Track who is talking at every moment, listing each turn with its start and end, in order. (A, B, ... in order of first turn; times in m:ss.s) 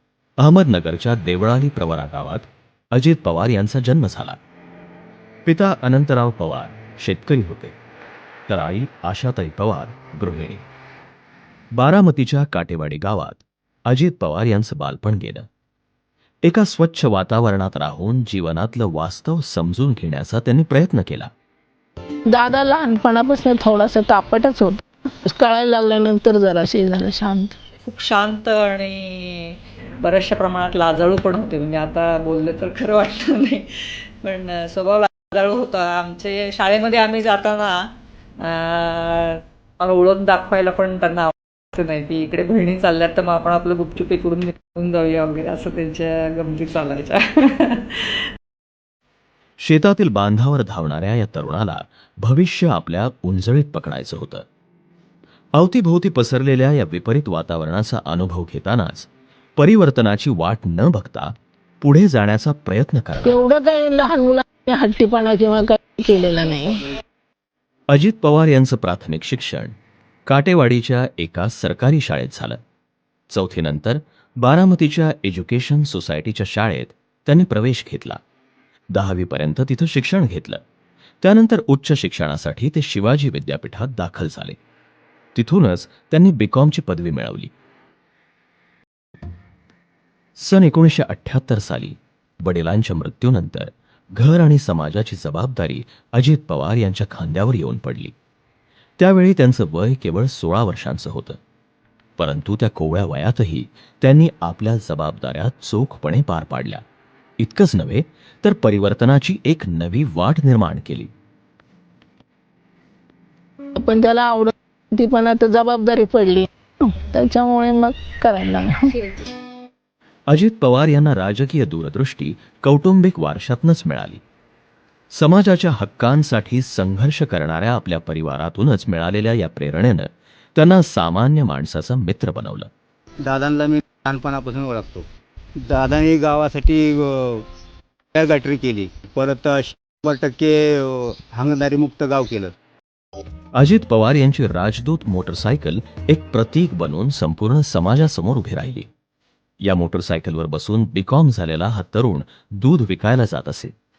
0:00.4-0:04.4 A
0:05.4-0:07.7 A
0:08.5-0:10.6 A
0:11.8-0:15.4 A
0:16.4-0:21.3 A
0:22.3-0:27.6 B
0:27.9-0:33.6 C
0:34.2-0:37.8 C
0:38.4-0:48.2 C
0:49.6-0:54.4 A
0:55.6-1:03.4 A
1:03.2-1:06.8 B
1:07.9-1:09.7 A
1:10.3-1:12.6 A
1:13.3-1:18.2 A
1:18.9-1:20.6 A
1:21.2-1:24.6 A
1:25.3-1:27.5 A
1:30.4-1:38.1 A
1:39.0-1:41.4 A
1:42.2-1:46.8 A
1:47.4-1:51.1 A
1:53.8-1:58.8 B
2:00.3-2:04.2 A
2:05.1-2:12.7 A
2:13.2-2:15.0 D
2:15.6-2:17.4 D
2:18.1-2:22.5 D
2:23.6-2:28.9 A
2:29.6-2:33.7 A